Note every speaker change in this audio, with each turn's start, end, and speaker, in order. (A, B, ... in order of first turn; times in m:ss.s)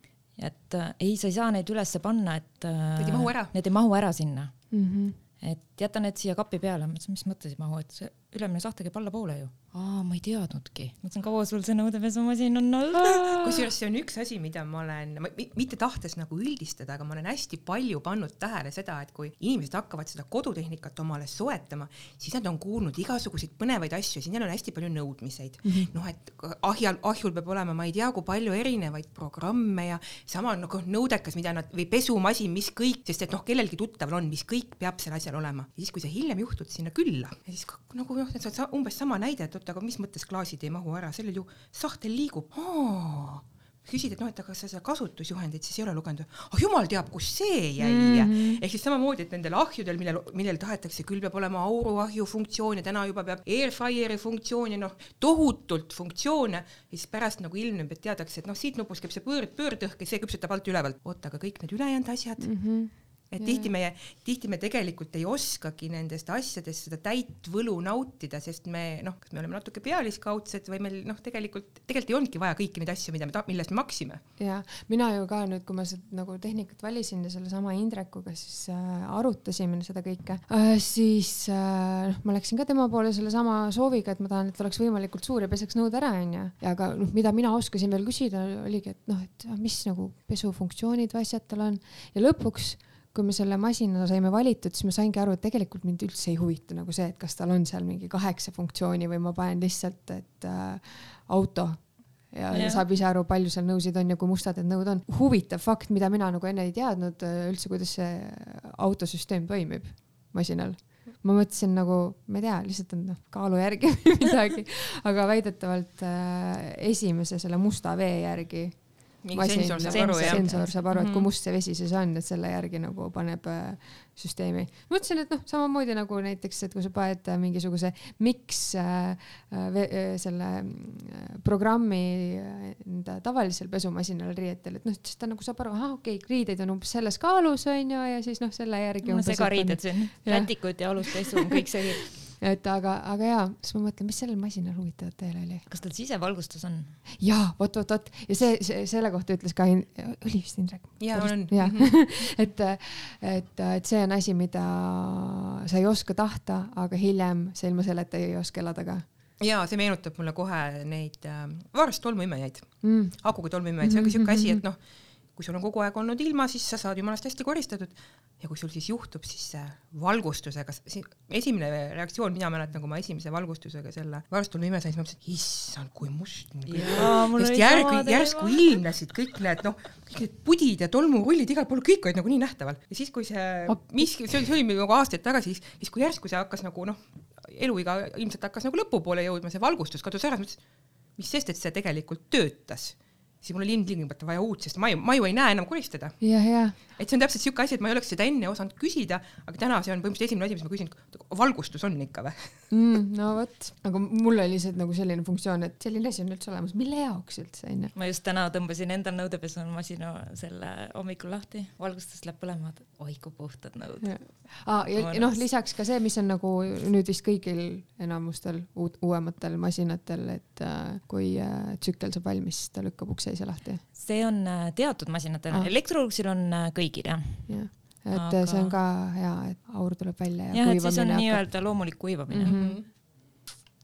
0:00.4-0:04.5 A
0:03.0-0:03.5 B
0:04.7-0:05.2 C
0:05.4-0:13.7 A
0:13.4-1:02.5 B
0:25.6-0:25.9 C
0:47.8-0:48.6 C
1:02.4-1:03.7 C
1:03.3-1:14.2 B
1:14.4-1:58.8 C
1:42.5-1:42.8 A
1:59.2-2:01.3 B
1:59.3-2:25.6 C
1:59.9-2:00.7 A
2:19.0-2:22.1 A
2:25.7-2:27.0 A
2:27.2-2:39.0 C
2:31.0-2:32.0 B
2:39.4-2:44.8 B
2:42.8-2:43.2 C
2:43.8-2:44.6 C
2:45.3-3:10.6 B
2:56.7-2:58.7 A
3:03.7-3:04.1 C
3:11.2-3:22.6 B
3:16.2-3:16.8 C
3:22.7-3:27.9 C
3:27.9-3:35.4 A
3:34.0-3:43.8 C
3:43.9-3:48.8 A
3:47.5-3:51.7 C
3:50.5-3:52.6 A
3:52.3-3:52.8 C
3:52.4-3:52.9 B